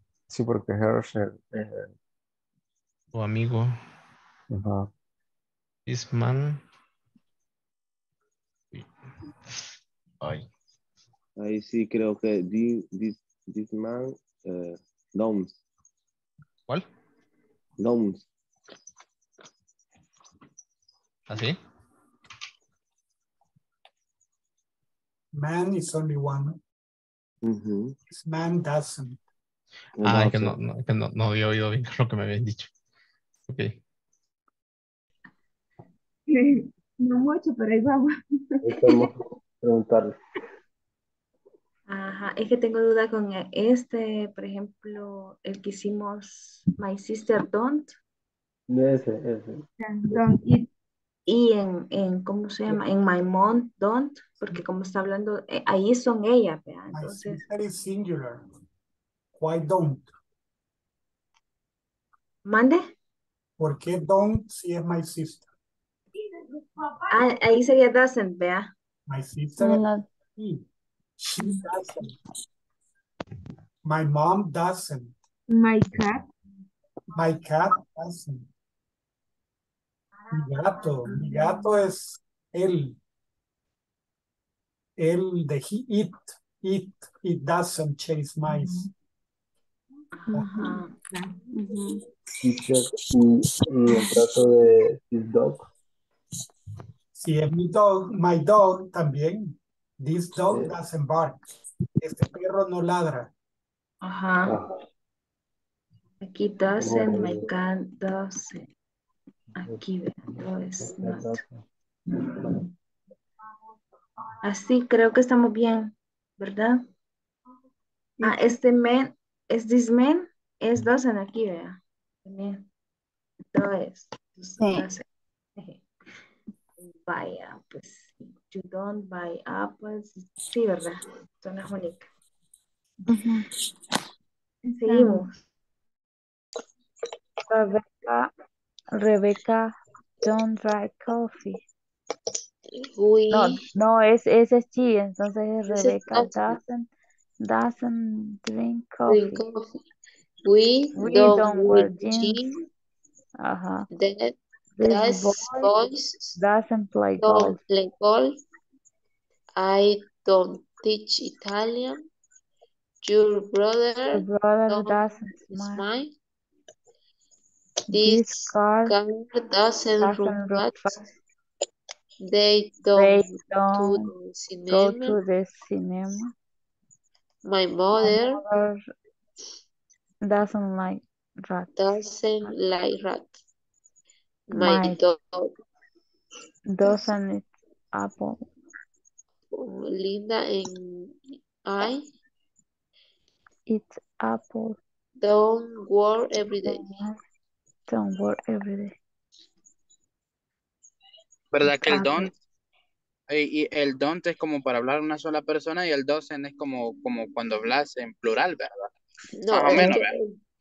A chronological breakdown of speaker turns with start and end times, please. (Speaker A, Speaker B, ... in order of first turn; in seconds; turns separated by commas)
Speaker A: 0.3-1.9, Speaker B: 3.1-3.8, Speaker A: 4.5-4.9, Speaker B: 5.9-6.6, Speaker B: 10.2-10.5, Speaker C: 11.4-15.5, Speaker C: 17.8-18.2, Speaker B: 21.3-21.6, Speaker D: 25.3-26.6, Speaker C: 27.4-28.0, Speaker D: 28.1-29.2, Speaker C: 30.0-30.6, Speaker B: 30.0-32.7, Speaker B: 33.5-33.8, Speaker E: 36.3-39.1, Speaker F: 38.6-40.2, Speaker G: 41.9-47.9, Speaker F: 48.7-50.2, Speaker E: 49.8-50.7, Speaker G: 51.3-57.4, Speaker D: 56.9-58.4, Speaker D: 59.4-60.1, Speaker G: 62.5-62.8, Speaker D: 63.6-65.5, Speaker E: 66.8-67.2, Speaker G: 67.1-68.7, Speaker D: 69.1-70.6, Speaker H: 69.6-70.0, Speaker D: 71.2-72.2, Speaker D: 73.8-75.2, Speaker E: 75.5-76.3, Speaker D: 77.1-78.5, Speaker D: 80.3-83.0, Speaker E: 81.1-81.3, Speaker D: 85.0-88.9, Speaker G: 90.1-91.0, Speaker E: 90.3-91.8, Speaker H: 91.6-91.9, Speaker F: 92.4-95.7, Speaker D: 97.2-101.4, Speaker F: 100.5-100.7, Speaker D: 102.0-103.3, Speaker G: 104.0-104.6, Speaker G: 106.2-108.7, Speaker F: 106.8-107.5, Speaker G: 109.6-111.4, Speaker F: 110.8-111.5, Speaker G: 114.4-116.9, Speaker G: 118.2-122.7, Speaker G: 123.5-125.0, Speaker G: 126.8-132.1, Speaker E: 133.1-133.4, Speaker E: 134.7-135.3, Speaker G: 134.8-135.3, Speaker H: 137.5-138.3, Speaker H: 138.9-141.6, Speaker I: 142.8-143.6, Speaker H: 143.3-146.9, Speaker I: 145.7-146.6, Speaker H: 147.4-149.4, Speaker I: 149.1-149.8, Speaker I: 150.4-152.6, Speaker H: 151.0-152.5, Speaker H: 153.4-153.9, Speaker I: 153.9-156.4, Speaker H: 154.8-155.8, Speaker H: 156.4-157.6, Speaker I: 157.2-158.4, Speaker I: 159.6-162.1, Speaker I: 163.0-166.1, Speaker H: 164.1-165.8, Speaker H: 167.9-168.9, Speaker I: 167.9-170.8, Speaker H: 170.0-171.1, Speaker I: 172.2-175.2, Speaker H: 172.9-174.1, Speaker H: 174.7-176.3, Speaker I: 177.4-178.4, Speaker H: 178.0-178.8, Speaker H: 180.2-181.7, Speaker I: 181.8-183.3, Speaker H: 184.5-185.0, Speaker I: 184.5-185.5, Speaker H: 186.7-188.5, Speaker I: 189.5-192.1, Speaker H: 193.7-194.8, Speaker I: 195.2-196.8, Speaker H: 196.6-197.2, Speaker H: 197.9-199.0, Speaker J: 201.5-202.3, Speaker H: 201.8-202.3, Speaker J: 203.3-208.9, Speaker I: 209.4-210.3, Speaker J: 209.5-210.2